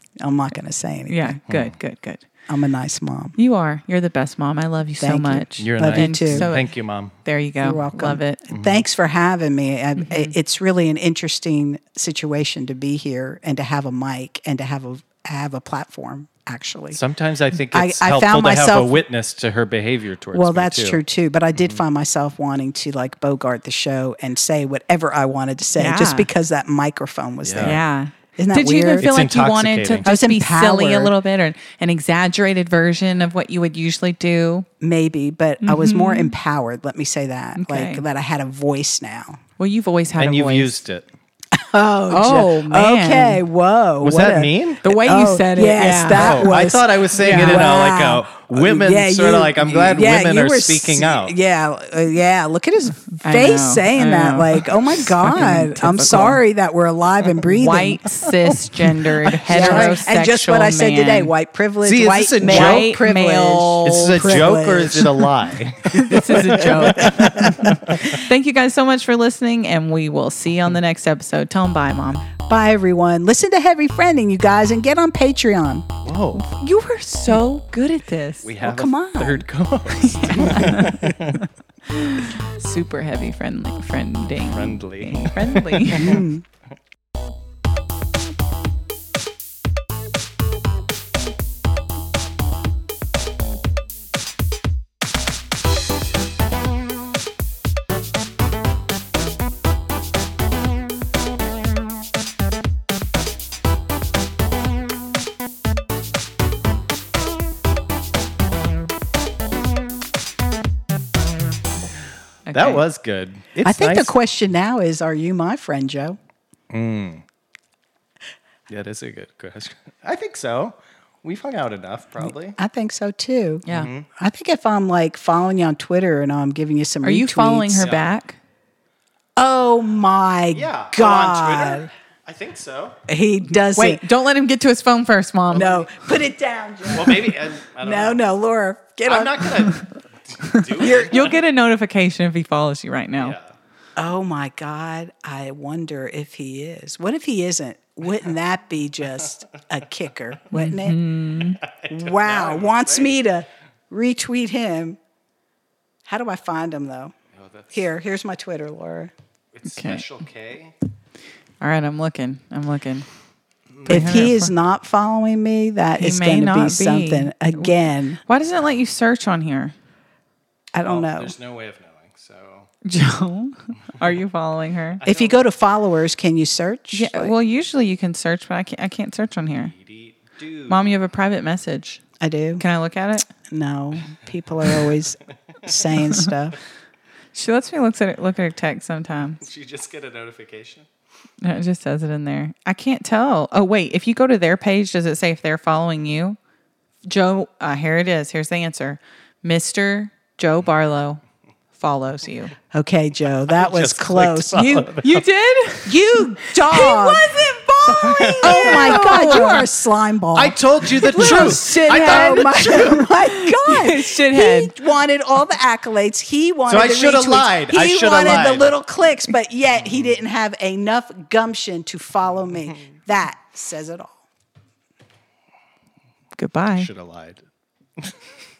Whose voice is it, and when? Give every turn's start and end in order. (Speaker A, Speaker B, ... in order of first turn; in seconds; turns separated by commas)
Speaker A: 0.2-1.4, Speaker B: 1.1-2.2, Speaker A: 2.5-3.4, Speaker B: 3.4-6.7, Speaker A: 5.0-6.5, Speaker C: 5.6-7.2, Speaker B: 7.2-8.4, Speaker A: 7.6-17.0, Speaker C: 8.5-8.8, Speaker B: 10.0-10.3, Speaker C: 16.9-21.0, Speaker A: 17.7-19.0, Speaker A: 20.3-27.8, Speaker B: 25.8-26.3, Speaker C: 27.4-27.8, Speaker B: 27.6-34.7, Speaker A: 28.4-29.1, Speaker C: 29.0-30.1, Speaker A: 30.0-31.1, Speaker A: 34.8-39.4, Speaker B: 35.6-36.3, Speaker B: 37.5-38.0, Speaker B: 39.6-40.8, Speaker C: 40.2-41.0, Speaker A: 41.5-58.0, Speaker B: 42.1-43.4, Speaker C: 44.0-44.8, Speaker B: 44.8-46.5, Speaker C: 46.1-51.3, Speaker B: 47.2-47.7, Speaker B: 53.2-56.4, Speaker B: 57.5-61.3, Speaker C: 58.8-60.0, Speaker A: 59.5-65.3, Speaker C: 61.8-62.9, Speaker B: 62.4-64.3, Speaker C: 63.8-68.0, Speaker A: 65.9-68.0, Speaker B: 65.9-72.3, Speaker A: 72.5-75.9, Speaker C: 76.0-76.5, Speaker B: 76.3-78.5, Speaker C: 78.4-81.4, Speaker A: 78.6-79.5, Speaker B: 79.9-86.2, Speaker C: 84.5-86.2, Speaker A: 86.0-86.4, Speaker B: 112.5-112.8, Speaker C: 112.5-114.1, Speaker A: 113.6-116.2, Speaker C: 116.7-117.2, Speaker C: 118.7-122.6, Speaker A: 122.2-127.9, Speaker C: 123.7-124.1, Speaker B: 127.0-128.4, Speaker C: 127.8-128.1, Speaker A: 129.4-131.9, Speaker C: 130.5-133.0, Speaker A: 133.1-134.0, Speaker B: 133.7-135.7, Speaker A: 135.5-139.7, Speaker C: 135.5-135.8, Speaker C: 136.9-138.2, Speaker C: 139.1-141.4, Speaker B: 140.4-143.4, Speaker C: 143.2-143.5, Speaker A: 144.0-151.0, Speaker B: 150.5-151.6, Speaker C: 151.6-153.1, Speaker A: 151.9-155.0, Speaker A: 156.1-157.1, Speaker C: 157.3-157.7, Speaker A: 157.7-159.1, Speaker C: 159.5-160.7, Speaker B: 159.7-160.1, Speaker B: 161.6-163.1, Speaker C: 163.7-164.3, Speaker B: 163.9-164.5, Speaker A: 163.9-168.2, Speaker B: 166.0-169.7, Speaker A: 170.7-171.3, Speaker C: 170.8-172.7, Speaker B: 172.8-175.0, Speaker C: 175.0-175.4, Speaker A: 175.0-177.3, Speaker B: 176.9-179.7, Speaker C: 179.7-180.9, Speaker B: 180.7-182.0, Speaker A: 182.2-182.6, Speaker B: 182.6-183.3, Speaker A: 183.5-186.6, Speaker B: 187.3-189.4, Speaker C: 189.4-190.8, Speaker B: 191.4-196.4, Speaker B: 197.1-201.2, Speaker B: 201.7-202.5, Speaker A: 202.7-204.9, Speaker C: 203.5-205.2, Speaker B: 204.5-209.7, Speaker A: 205.8-207.3, Speaker C: 207.9-209.7, Speaker A: 208.4-224.2, Speaker C: 210.3-213.1, Speaker B: 211.1-214.7, Speaker C: 216.7-218.7, Speaker B: 226.4-226.9, Speaker C: 226.8-227.4